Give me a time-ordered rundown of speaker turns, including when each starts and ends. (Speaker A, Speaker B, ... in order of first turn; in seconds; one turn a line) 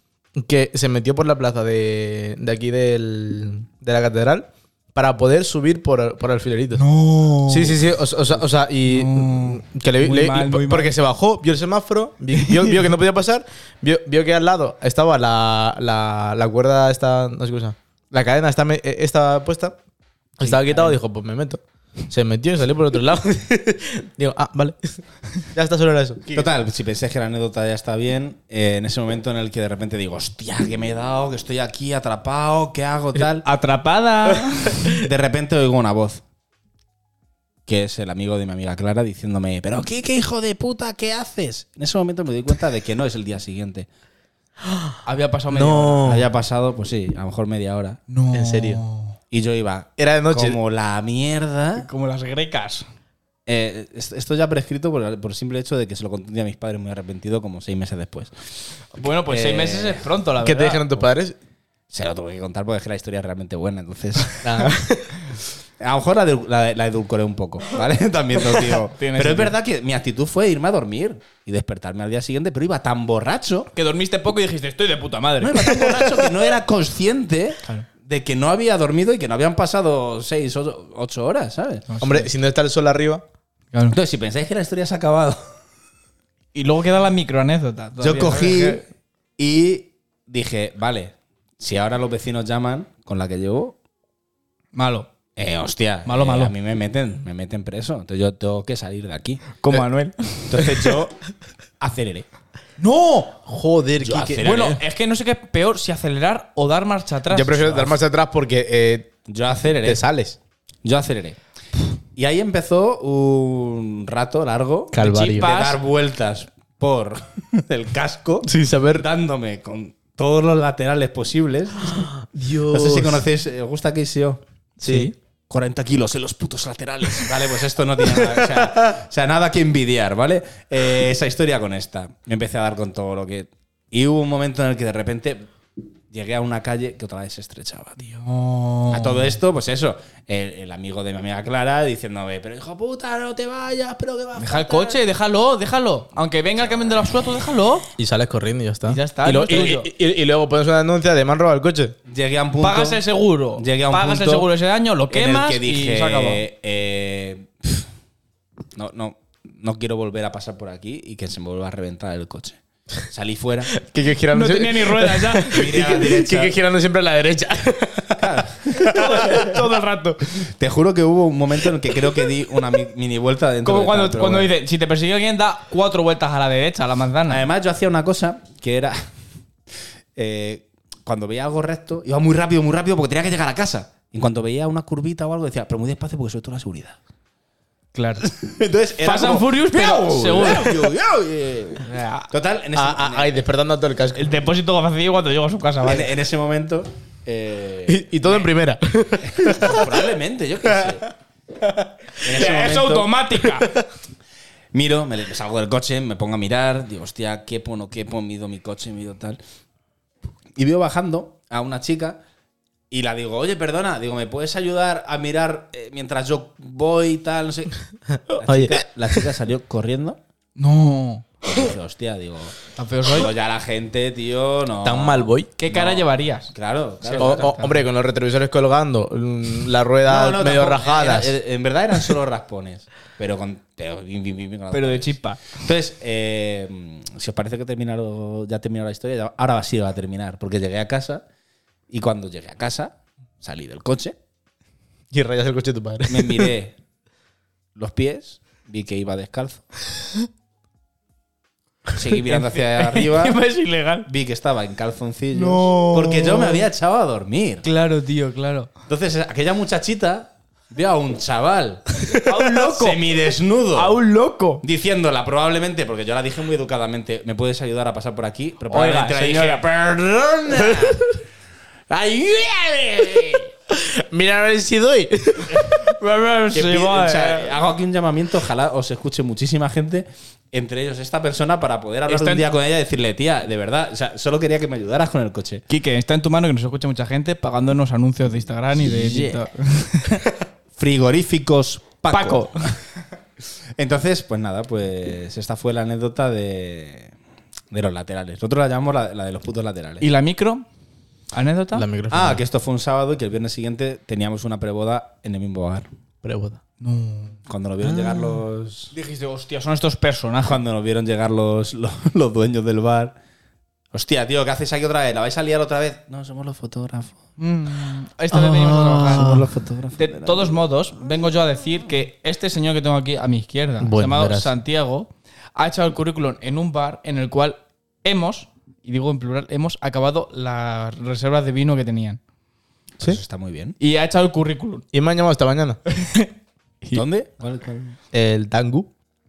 Speaker A: 0.4-6.8
Speaker B: 6.8-7.8
Speaker A: 7.5-19.8
Speaker B: 8.9-10.9
Speaker B: 12.3-12.8
Speaker A: 20.4-26.5
Speaker C: 20.4-21.0
Speaker C: 26.3-33.5
Speaker B: 33.2-35.0
Speaker C: 35.0-36.2
Speaker C: 37.7-43.9
Speaker A: 44.6-45.0
Speaker B: 45.0-46.2
Speaker A: 45.5-46.3
Speaker C: 46.0-48.0
Speaker B: 48.1-49.2
Speaker A: 48.3-48.8
Speaker C: 49.3-51.9
Speaker A: 50.0-50.6
Speaker B: 51.8-52.9
Speaker C: 53.5-58.3
Speaker B: 59.0-61.0
Speaker C: 59.3-60.1
Speaker A: 60.4-61.4
Speaker C: 61.9-64.4
Speaker A: 64.4-65.2
Speaker C: 65.8-73.7
Speaker B: 68.8-69.5
Speaker B: 73.8-76.3
Speaker C: 75.4-81.9
Speaker B: 81.9-82.3
Speaker A: 82.0-83.2
Speaker C: 83.9-85.4
Speaker B: 86.5-88.8
Speaker C: 88.0-88.8
Speaker C: 89.4-93.8
Speaker B: 94.7-95.1
Speaker C: 95.4-99.5
Speaker B: 96.1-96.5
Speaker B: 99.6-100.8
Speaker C: 100.5-101.2
Speaker C: 101.8-102.3
Speaker B: 102.8-103.4
Speaker A: 103.5-104.5
Speaker C: 104.0-104.8
Speaker B: 104.4-108.0
Speaker A: 107.3-109.1
Speaker C: 109.3-110.0
Speaker A: 109.8-110.4
Speaker C: 110.8-111.4
Speaker C: 112.2-124.4
Speaker A: 114.9-115.5
Speaker B: 115.0-115.8
Speaker A: 118.4-119.1
Speaker A: 121.9-123.2
Speaker B: 124.8-125.1
Speaker A: 124.8-125.1
Speaker C: 125.5-135.5
Speaker A: 128.1-128.9
Speaker C: 136.1-138.2
Speaker B: 138.2-139.4
Speaker C: 138.9-145.0
Speaker B: 144.4-147.9
Speaker A: 148.0-151.9
Speaker B: 148.9-149.9
Speaker C: 152.1-153.0
Speaker B: 152.6-156.4
Speaker C: 153.6-154.5
Speaker C: 155.1-157.9
Speaker C: 158.8-163.7
Speaker A: 163.7-169.5
Speaker B: 164.3-166.1
Speaker C: 165.5-166.6
Speaker C: 168.2-169.6
Speaker B: 168.9-170.4
Speaker C: 170.6-174.5
Speaker B: 173.6-177.4
Speaker C: 177.3-179.0
Speaker C: 180.2-187.0
Speaker B: 187.9-188.2
Speaker C: 188.2-193.4
Speaker B: 189.0-190.9
Speaker B: 191.8-192.3
Speaker A: 192.8-194.3
Speaker B: 194.1-196.1
Speaker C: 195.8-198.1
Speaker A: 197.9-199.9
Speaker C: 199.2-201.1
Speaker C: 202.2-203.1
Speaker B: 202.2-203.7
Speaker A: 203.4-203.8
Speaker C: 204.7-209.4
Speaker C: 210.6-212.2
Speaker C: 212.9-217.8
Speaker A: 218.1-218.8
Speaker C: 218.3-220.2
Speaker B: 220.6-221.3
Speaker C: 221.4-227.6
Speaker B: 222.7-223.3
Speaker A: 224.8-225.5
Speaker B: 225.6-227.8
Speaker A: 227.2-231.4
Speaker C: 230.1-241.2
Speaker B: 234.7-235.6
Speaker C: 241.9-244.2
Speaker A: 245.1-246.5
Speaker C: 246.1-246.8
Speaker C: 247.8-249.6
Speaker C: 251.9-253.4
Speaker B: 252.2-254.1
Speaker C: 254.1-257.7
Speaker B: 255.3-256.6
Speaker B: 257.6-258.7
Speaker C: 258.9-264.0
Speaker B: 262.1-263.1
Speaker B: 263.7-264.6
Speaker C: 264.6-271.0
Speaker B: 268.7-269.6
Speaker C: 271.9-273.5
Speaker A: 273.7-275.9
Speaker B: 275.8-277.6
Speaker C: 276.5-285.6
Speaker B: 282.1-282.5
Speaker B: 285.7-290.3
Speaker C: 288.8-289.4
Speaker C: 290.8-292.8
Speaker B: 292.1-292.8
Speaker C: 293.8-297.1
Speaker C: 297.7-300.1
Speaker B: 300.0-300.6
Speaker B: 301.3-301.9
Speaker A: 301.7-302.4
Speaker C: 302.1-305.9
Speaker A: 306.2-306.6
Speaker B: 306.8-307.4
Speaker C: 307.5-308.9
Speaker B: 308.9-310.6
Speaker C: 310.5-313.1
Speaker C: 313.9-317.2
Speaker B: 317.4-319.4
Speaker A: 318.3-319.5
Speaker C: 319.0-320.6
Speaker B: 320.0-332.2
Speaker A: 323.8-324.5
Speaker C: 333.0-333.8
Speaker B: 333.8-334.9
Speaker A: 334.9-335.8
Speaker B: 335.9-336.3
Speaker C: 336.9-338.0
Speaker A: 338.1-338.9